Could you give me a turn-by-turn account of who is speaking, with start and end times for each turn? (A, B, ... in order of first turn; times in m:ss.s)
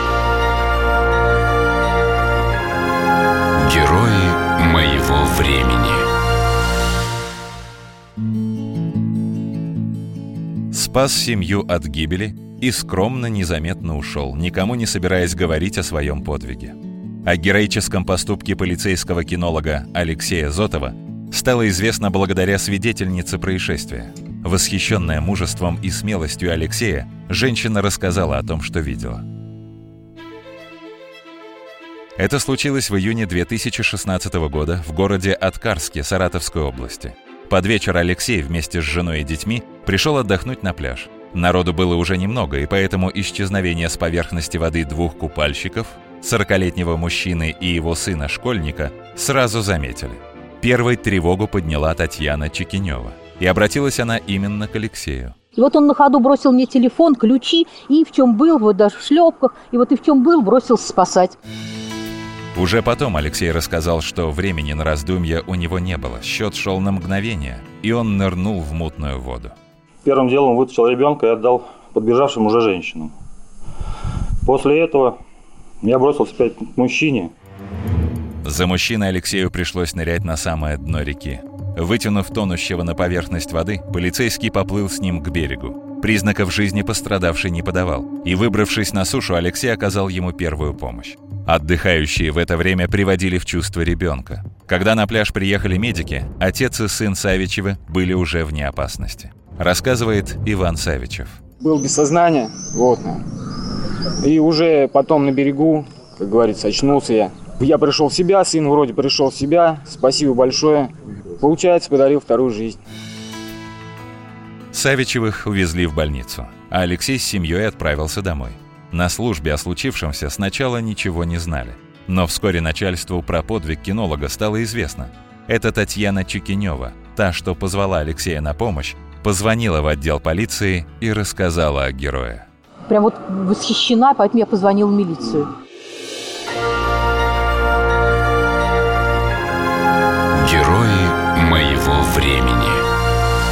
0:03.6-0:06.1 A
0:10.7-0:29.2 B
0:32.2-0:55.4 B
0:55.6-1:01.4 C
1:02.6-1:09.6 B
1:10.0-1:13.1 D
1:14.4-1:15.2 D
1:15.8-1:17.3 D
1:18.4-1:41.4 B
1:41.6-1:43.2 E
1:44.2-1:52.8 E
1:54.7-2:12.5 B
2:12.9-2:15.5 C
2:20.3-2:22.9 A